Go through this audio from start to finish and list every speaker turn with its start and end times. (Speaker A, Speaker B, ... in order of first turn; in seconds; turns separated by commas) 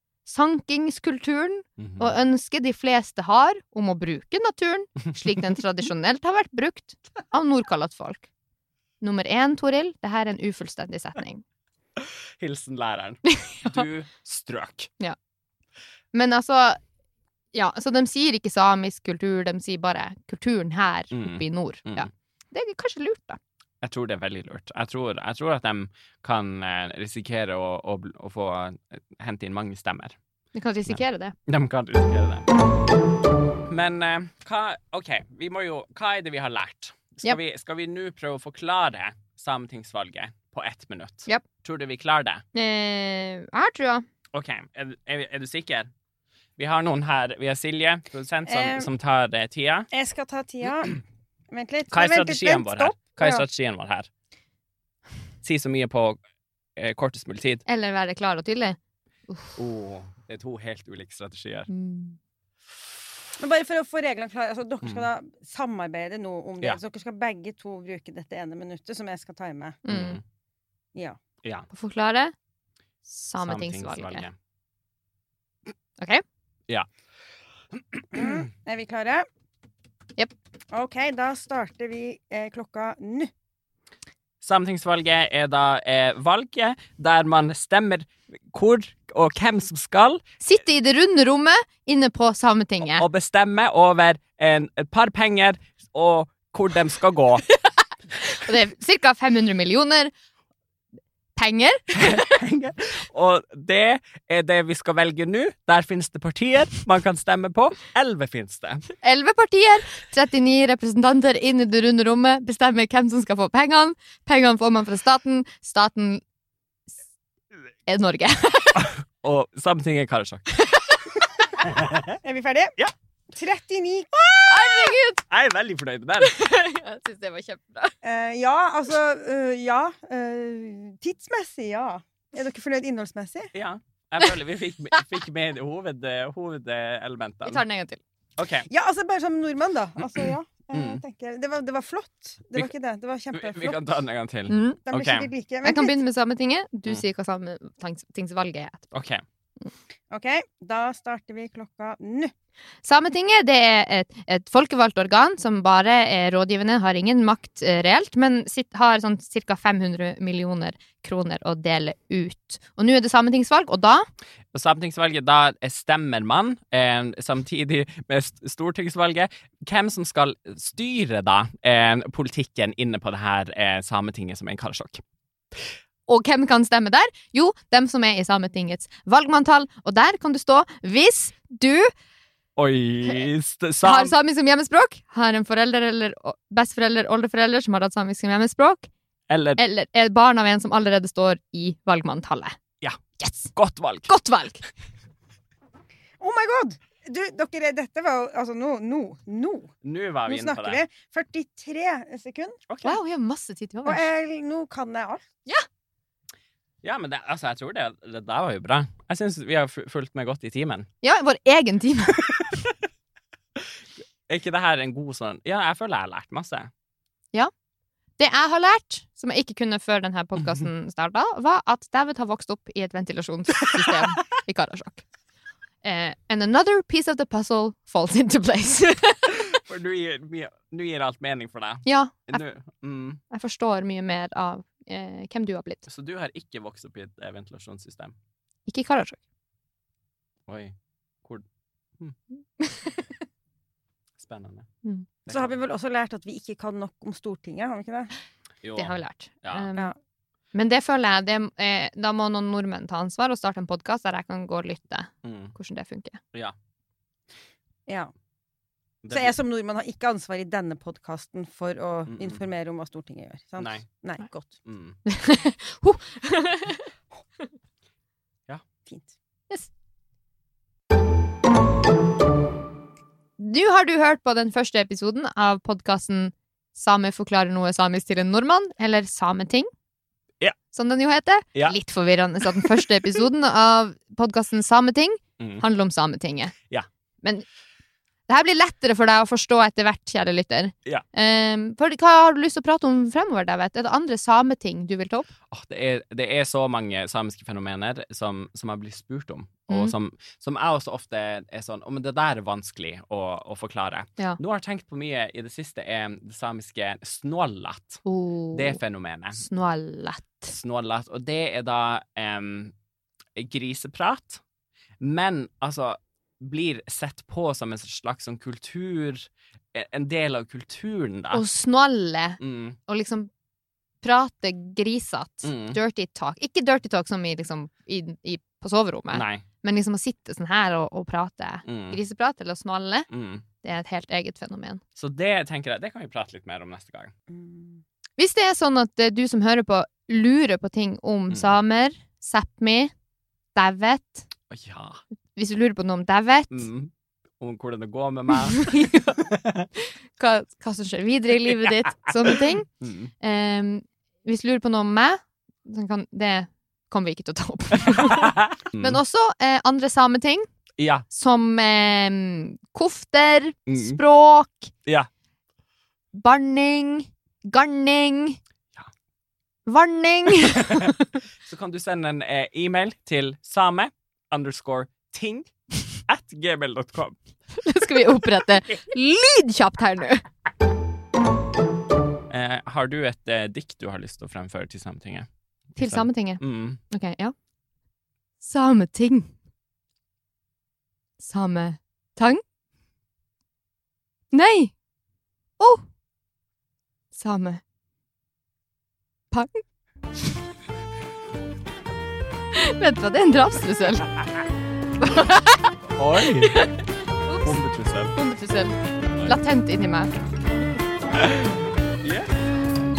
Speaker A: 0.2-8.3, Speaker B: 1.8-2.2, Speaker A: 9.0-11.4, Speaker B: 12.0-14.9, Speaker A: 13.3-13.9, Speaker A: 16.1-16.8, Speaker A: 17.5-23.4, Speaker B: 21.1-22.1, Speaker B: 23.8-30.2, Speaker A: 30.5-31.4, Speaker B: 30.9-32.5, Speaker B: 33.7-42.4, Speaker A: 42.5-44.0, Speaker B: 44.3-45.9, Speaker B: 46.6-49.9, Speaker C: 48.5-48.9, Speaker C: 49.9-53.4, Speaker B: 51.9-54.1, Speaker B: 55.4-56.2, Speaker B: 56.8-57.6, Speaker A: 57.7-58.8, Speaker A: 59.3-59.6, Speaker B: 59.6-61.7, Speaker A: 61.7-62.2, Speaker C: 63.4-69.8, Speaker A: 69.8-70.2, Speaker B: 69.9-70.2, Speaker A: 71.7-72.3, Speaker A: 73.1-74.3, Speaker B: 73.4-74.3, Speaker C: 78.1-79.3, Speaker C: 80.7-83.3, Speaker B: 84.4-90.2, Speaker A: 90.4-93.0, Speaker B: 92.9-97.4, Speaker A: 97.5-100.1, Speaker A: 101.3-102.4, Speaker B: 101.9-108.9, Speaker A: 109.0-116.2, Speaker A: 117.9-118.9, Speaker B: 118.8-120.5, Speaker A: 120.5-121.0, Speaker B: 121.6-122.2, Speaker C: 122.2-122.8, Speaker C: 123.3-124.1, Speaker B: 124.1-126.3, Speaker A: 124.4-125.2, Speaker A: 126.2-128.0, Speaker C: 128.0-133.5, Speaker B: 133.5-137.6, Speaker A: 137.4-138.0, Speaker B: 138.4-138.7, Speaker C: 138.7-143.9, Speaker B: 140.2-141.0, Speaker B: 143.3-145.3, Speaker A: 144.5-144.8, Speaker C: 144.9-146.0, Speaker A: 145.6-148.9, Speaker B: 148.9-149.2, Speaker C: 150.1-152.3, Speaker A: 152.8-164.1, Speaker B: 164.5-175.0, Speaker A: 176.1-181.9, Speaker B: 182.6-184.2, Speaker A: 183.8-188.9, Speaker B: 189.3-189.6, Speaker A: 189.6-192.6, Speaker A: 193.2-193.5, Speaker B: 193.5-194.1, Speaker A: 194.1-194.7, Speaker C: 196.2-199.8, Speaker B: 199.8-200.8, Speaker C: 200.3-202.6, Speaker B: 202.7-203.0, Speaker A: 202.8-204.1, Speaker C: 203.8-205.3, Speaker B: 206.8-210.9, Speaker A: 211.0-212.3, Speaker B: 212.3-212.6, Speaker B: 214.3-216.7, Speaker A: 218.2-225.1, Speaker A: 225.8-229.6, Speaker B: 229.5-233.2, Speaker A: 231.8-232.4, Speaker A: 233.3-235.8, Speaker B: 235.9-238.2, Speaker A: 238.7-239.2, Speaker B: 240.5-241.4, Speaker A: 242.6-243.1, Speaker B: 244.2-244.7, Speaker C: 245.3-248.1, Speaker B: 245.3-245.6, Speaker B: 248.6-249.7, Speaker A: 248.8-249.9, Speaker A: 250.5-256.2, Speaker B: 255.2-255.5, Speaker C: 257.9-258.1, Speaker B: 259.0-259.3, Speaker C: 259.1-264.6, Speaker B: 262.1-262.4, Speaker B: 263.6-263.8, Speaker B: 264.6-265.0, Speaker A: 265.1-266.9, Speaker C: 268.9-269.1, Speaker A: 273.4-279.7, Speaker A: 280.7-286.6, Speaker B: 282.5-282.9, Speaker A: 288.3-295.3, Speaker B: 295.5-309.4, Speaker A: 299.7-299.9, Speaker A: 308.1-308.8, Speaker A: 309.4-310.5, Speaker B: 310.5-312.7, Speaker B: 313.4-314.4, Speaker B: 315.0-321.4, Speaker A: 321.3-323.3, Speaker B: 322.4-322.8, Speaker A: 324.0-333.1, Speaker B: 325.4-325.8, Speaker B: 329.1-329.4, Speaker B: 331.7-332.0, Speaker B: 333.1-333.4, Speaker A: 333.6-334.8, Speaker B: 335.0-337.1, Speaker C: 337.3-337.8, Speaker A: 338.2-342.9, Speaker A: 343.6-344.3, Speaker B: 344.5-345.0, Speaker A: 345.4-346.7, Speaker B: 346.5-349.7, Speaker A: 348.5-349.2, Speaker A: 349.8-352.7, Speaker B: 352.8-353.1, Speaker A: 353.2-360.5, Speaker B: 357.9-359.0, Speaker B: 360.8-361.1, Speaker A: 361.1-364.8, Speaker B: 363.7-364.0, Speaker A: 366.1-368.4, Speaker A: 369.7-371.1, Speaker B: 370.5-377.2, Speaker A: 377.6-380.2, Speaker B: 382.3-385.3, Speaker A: 385.8-387.3, Speaker B: 385.8-386.8, Speaker A: 388.4-389.3, Speaker A: 391.2-392.4, Speaker A: 394.3-394.8, Speaker A: 395.6-395.9, Speaker A: 397.1-397.6, Speaker A: 399.3-399.6, Speaker A: 402.5-404.1, Speaker A: 405.0-405.7, Speaker B: 406.0-406.7, Speaker A: 406.3-406.7, Speaker A: 407.3-407.6, Speaker B: 407.4-408.1, Speaker A: 408.1-410.1, Speaker B: 409.1-409.4, Speaker B: 411.2-412.3